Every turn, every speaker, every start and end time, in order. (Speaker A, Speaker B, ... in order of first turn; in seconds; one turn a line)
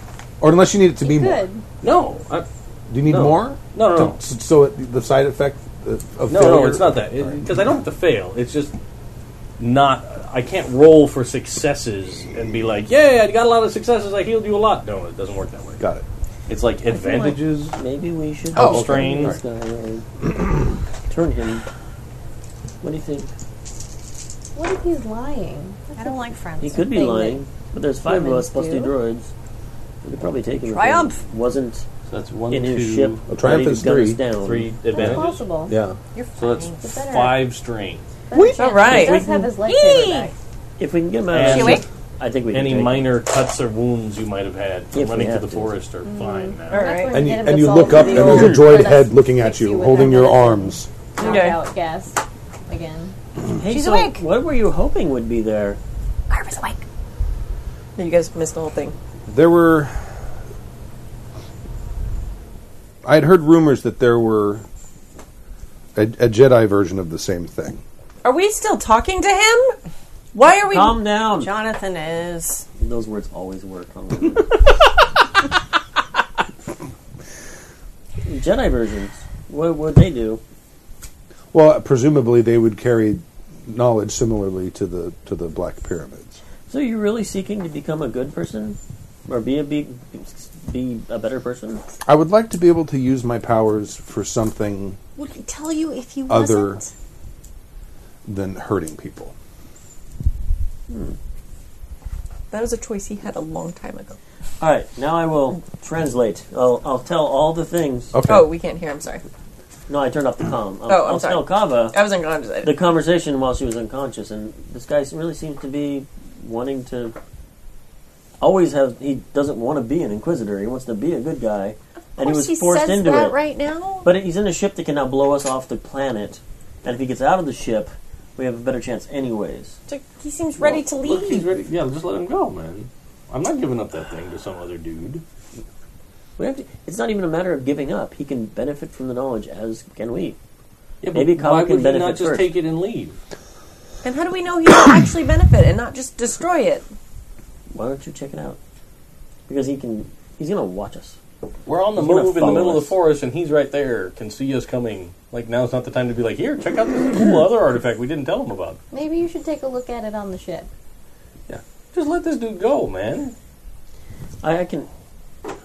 Speaker A: 0.4-1.4
Speaker B: 1.0-1.6
Speaker C: 1.8-2.5
Speaker A: 2.9-7.3
Speaker C: 3.0-4.2
Speaker C: 6.3-8.7
Speaker C: 9.6-15.8
Speaker A: 15.8-16.0
Speaker C: 16.5-17.8
Speaker D: 16.9-20.4
Speaker C: 18.5-19.4
Speaker A: 18.5-19.4
Speaker D: 21.1-21.6
Speaker D: 22.8-23.3
Speaker B: 24.5-27.4
Speaker E: 25.9-27.0
Speaker D: 26.6-29.3
Speaker B: 28.0-28.9
Speaker D: 30.0-31.8
Speaker E: 30.7-31.2
Speaker C: 32.1-33.3
Speaker D: 32.5-34.7
Speaker A: 33.3-34.2
Speaker C: 34.4-35.4
Speaker B: 34.9-35.7
Speaker A: 35.0-36.0
Speaker E: 36.1-36.9
Speaker C: 36.4-38.0
Speaker B: 36.8-37.5
Speaker B: 38.3-40.3
Speaker F: 38.5-39.2
Speaker E: 38.6-40.3
Speaker D: 38.6-39.4
Speaker D: 40.8-43.2
Speaker C: 41.3-41.8
Speaker E: 41.4-41.8
Speaker C: 42.5-47.0
Speaker D: 44.9-45.7
Speaker B: 46.0-53.1
Speaker F: 46.7-47.2
Speaker A: 47.1-50.9
Speaker F: 51.2-51.6
Speaker D: 53.5-55.8
Speaker E: 53.7-54.2
Speaker E: 56.3-56.8
Speaker F: 58.0-58.9
Speaker A: 59.3-60.0
Speaker A: 63.0-64.6
Speaker A: 65.9-67.8
Speaker F: 68.2-69.8
Speaker F: 70.3-71.0
Speaker D: 70.5-71.6
Speaker E: 71.3-72.6
Speaker D: 72.8-74.5
Speaker D: 78.2-80.4
Speaker A: 81.5-86.4
Speaker D: 86.7-91.8
Speaker A: 92.0-95.0
Speaker E: 95.2-96.9
Speaker A: 96.3-96.8
Speaker A: 98.2-99.3
Speaker D: 100.9-101.2
Speaker F: 102.5-104.2
Speaker D: 104.6-108.1
Speaker A: 108.1-108.5
Speaker F: 108.2-109.2
Speaker D: 109.9-112.0
Speaker F: 110.8-112.7
Speaker D: 112.6-117.2
Speaker D: 118.4-123.4
Speaker E: 122.2-124.1
Speaker D: 124.0-129.8
Speaker F: 129.9-131.5
Speaker D: 130.6-130.9
Speaker C: 130.9-135.2
Speaker D: 136.4-140.4
Speaker C: 141.0-143.2
Speaker D: 141.1-142.5
Speaker F: 144.0-146.8
Speaker D: 147.7-148.6
Speaker D: 149.5-151.2
Speaker C: 151.7-158.8
Speaker D: 151.9-153.0
Speaker B: 158.9-160.7
Speaker C: 161.5-163.3
Speaker D: 164.4-164.9